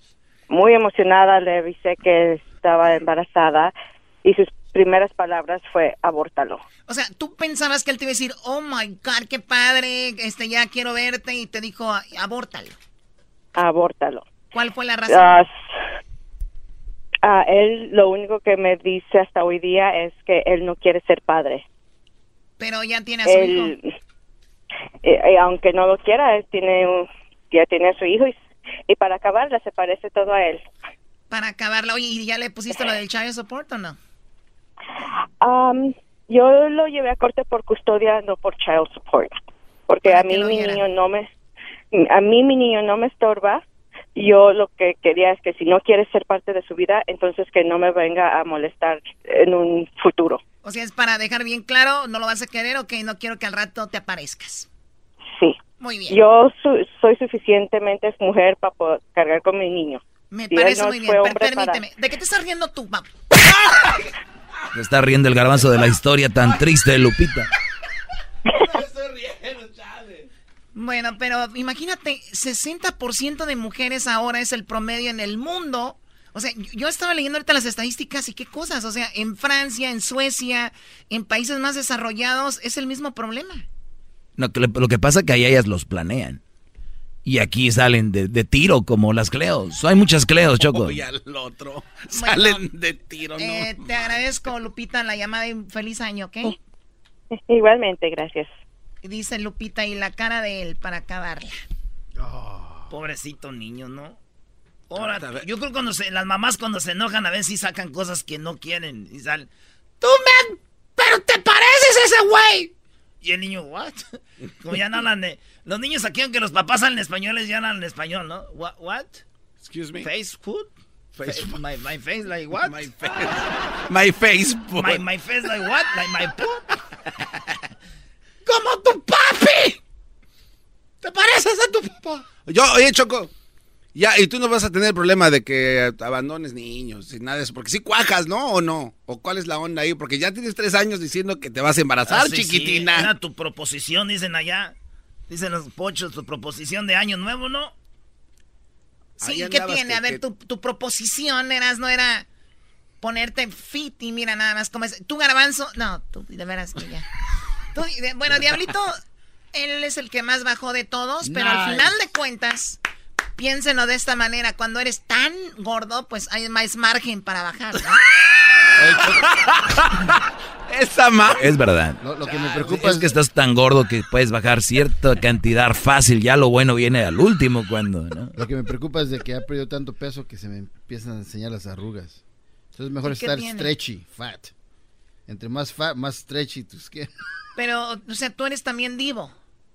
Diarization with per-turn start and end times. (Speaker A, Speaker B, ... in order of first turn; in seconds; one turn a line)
Speaker A: 0.5-3.7
Speaker A: 4.2-6.7
Speaker B: 6.9-12.8
Speaker A: 13.6-14.3
Speaker B: 14.5-15.4
Speaker A: 15.1-15.5
Speaker A: 17.2-21.6
Speaker B: 22.6-23.7
Speaker A: 23.2-23.9
Speaker A: 25.0-28.4
Speaker A: 28.9-30.7
Speaker B: 31.3-34.0
Speaker A: 35.4-39.4
Speaker A: 39.9-41.3
Speaker B: 40.0-40.8
Speaker A: 41.9-43.6
Speaker A: 44.1-50.4
Speaker B: 50.6-54.7
Speaker B: 55.8-56.2
Speaker A: 56.1-61.8
Speaker B: 60.3-63.2
Speaker C: 64.7-67.5
Speaker D: 68.5-70.3
Speaker B: 70.7-83.7
Speaker C: 84.4-86.4
Speaker C: 87.2-91.0
Speaker D: 90.6-94.2
Speaker B: 92.1-92.7
Speaker B: 93.4-96.6
Speaker A: 97.5-98.6
Speaker B: 99.0-101.6
Speaker E: 102.9-104.2
Speaker E: 104.9-109.5
Speaker D: 104.9-105.5
Speaker E: 110.0-110.4
Speaker E: 111.0-112.4
Speaker E: 113.2-114.0
Speaker E: 114.6-119.2
Speaker D: 119.6-120.1
Speaker E: 120.0-120.7
Speaker D: 121.2-121.6
Speaker E: 121.2-122.9
Speaker D: 122.6-125.0
Speaker E: 124.8-126.8
Speaker E: 128.5-129.6
Speaker D: 128.5-129.8
Speaker D: 131.0-133.3
Speaker D: 133.9-143.1
Speaker E: 142.1-144.7
Speaker E: 145.3-147.7
Speaker D: 149.2-150.2
Speaker B: 149.2-152.3
Speaker B: 153.0-157.1
Speaker B: 157.7-159.0
Speaker B: 159.5-162.8
Speaker F: 161.3-161.9
Speaker B: 163.4-168.0
Speaker F: 168.8-169.3
Speaker D: 169.0-169.3
Speaker D: 170.7-171.4
Speaker C: 171.3-178.4
Speaker F: 172.0-173.2
Speaker F: 178.4-182.2
Speaker F: 182.7-184.5
Speaker B: 183.0-183.7
Speaker F: 185.3-187.1
Speaker B: 187.6-189.4